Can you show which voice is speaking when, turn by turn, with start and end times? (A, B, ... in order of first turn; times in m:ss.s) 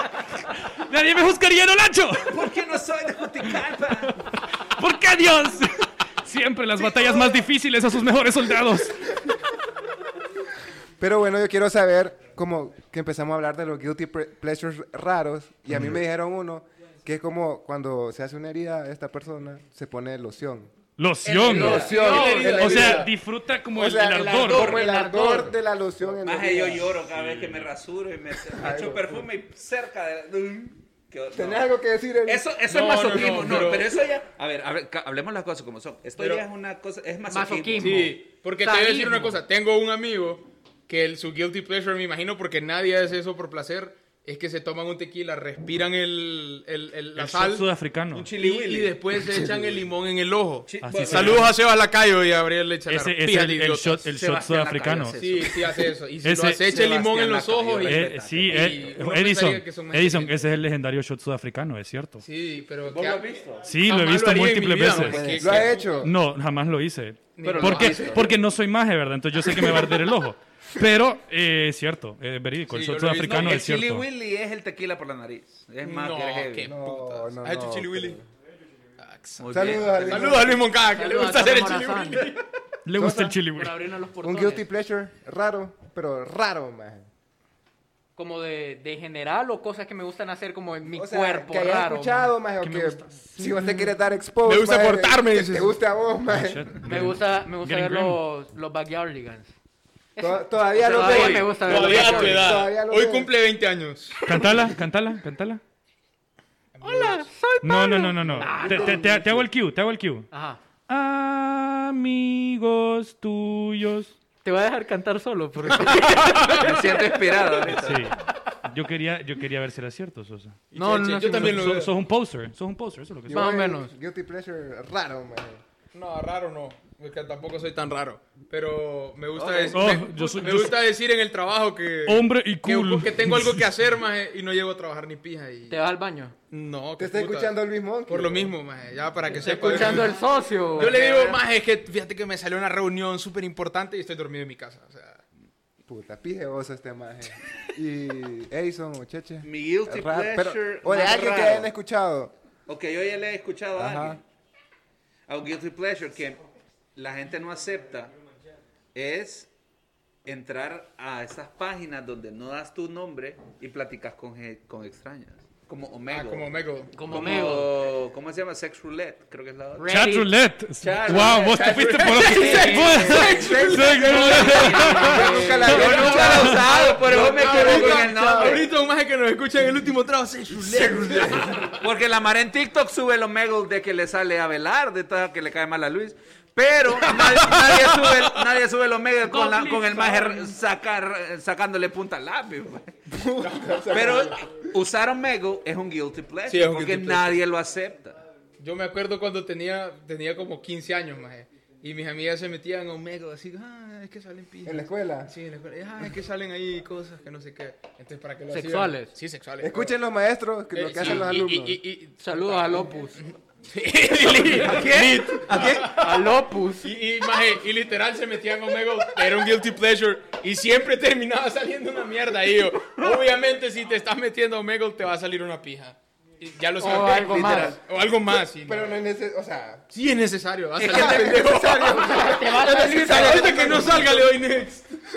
0:00.8-0:02.4 A
0:02.3-0:04.2 B
0:04.8-0:09.2 A
0:11.0-0:20.7 C
0:15.7-0:16.0 A
0:21.0-0:24.8 A
0:21.2-0:21.9 B
0:21.4-0:22.9 D
0:21.4-0:23.1 C
0:21.9-0:23.1 E
0:23.7-0:27.0 C
0:24.3-0:24.9 B
0:24.5-0:25.5 D
0:26.2-0:31.7 B
0:27.1-0:27.7 A
0:28.5-0:29.2 C
0:31.3-0:32.5 C
0:32.2-0:38.1 B
0:32.7-0:33.9 E
0:36.2-0:36.4 E
0:37.3-0:39.4 D
0:37.8-0:47.7 E
0:47.2-0:48.3 A
0:48.1-0:49.0 B
0:48.4-0:54.1 E
0:50.7-0:51.5 B
0:50.8-0:51.6 A
0:52.9-0:55.2 A
0:54.1-0:55.5 B
0:55.1-1:00.5 E
0:56.2-0:56.7 A
0:56.7-0:58.8 B
0:57.8-1:02.2 A
1:02.2-1:03.2 E
1:02.8-1:03.7 B
1:03.6-1:14.0 A
1:03.8-1:06.0 E
1:05.2-1:06.1 C
1:05.2-1:05.5 B
1:07.4-1:08.2 E
1:07.4-1:08.3 B
1:12.7-1:13.6 E
1:13.2-1:16.7 B
1:15.8-1:18.2 E
1:16.6-1:18.2 C
1:19.0-1:22.4 E
1:19.4-1:20.6 B
1:19.5-1:20.7 C
1:20.8-1:22.4 D
1:22.8-1:23.9 A
1:22.9-1:23.4 C
1:23.5-1:24.7 D
1:24.2-1:27.1 C
1:28.2-1:32.3 D
1:30.9-1:36.7 C
1:32.6-1:33.7 A
1:34.4-1:35.8 E
1:36.3-1:38.2 A
1:36.8-1:39.5 D
1:40.2-1:42.6 D
1:40.2-1:43.3 C
1:40.8-1:41.5 B
1:41.5-1:44.2 E
1:44.2-1:45.6 A
1:46.7-1:47.3 E
1:46.8-1:49.0 D
1:47.6-1:50.3 A
1:48.7-1:49.4 C
1:50.3-1:50.6 D
1:50.9-1:54.1 A
1:54.4-1:57.4 D
1:56.0-1:56.7 E
1:56.5-1:58.1 B
1:57.8-2:00.6 A
2:00.7-2:02.0 E
2:00.7-2:01.7 D
2:01.3-2:03.5 A
2:03.3-2:05.6 C
2:03.3-2:03.9 D
2:05.9-2:15.8 E
2:09.4-2:09.7 B
2:09.7-2:10.9 A
2:12.0-2:13.7 A
2:15.7-2:16.3 D
2:16.5-2:17.5 E
2:17.0-2:18.5 C
2:18.1-2:20.2 E
2:19.4-2:21.0 D
2:20.7-2:25.2 E
2:20.8-2:21.4 B
2:25.9-2:32.3 C
2:29.4-2:31.7 B
2:32.7-2:34.2 B
2:33.8-2:34.2 C
2:35.3-2:36.4 B
2:37.0-2:38.1 B
2:38.9-2:39.5 B
2:40.2-2:49.9 B
2:46.1-2:46.9 E
2:46.9-2:47.7 D
2:49.8-2:50.3 D
2:49.9-2:56.6 A
2:50.8-2:52.9 B
2:51.1-3:01.8 E
2:52.3-2:53.1 D
2:53.1-2:58.6 C
2:54.1-2:58.6 B
3:00.5-3:01.6 C
3:01.5-3:13.0 B
3:07.1-3:08.1 E
3:09.3-3:10.5 D
3:13.1-3:14.4 C
3:13.4-3:14.2 E
3:13.9-3:18.2 B
3:16.4-3:17.4 E
3:18.6-3:29.9 E
3:24.6-3:25.3 C
3:28.5-3:29.1 D
3:29.6-3:31.8 C
3:30.7-3:48.9 E
3:32.2-3:33.2 D
3:34.3-3:36.9 D
3:46.8-3:47.8 D
3:47.3-3:47.8 B
3:48.6-3:49.9 C
3:49.9-3:54.9 E
3:50.8-3:51.6 B
3:50.8-3:54.4 C
3:51.7-3:53.9 D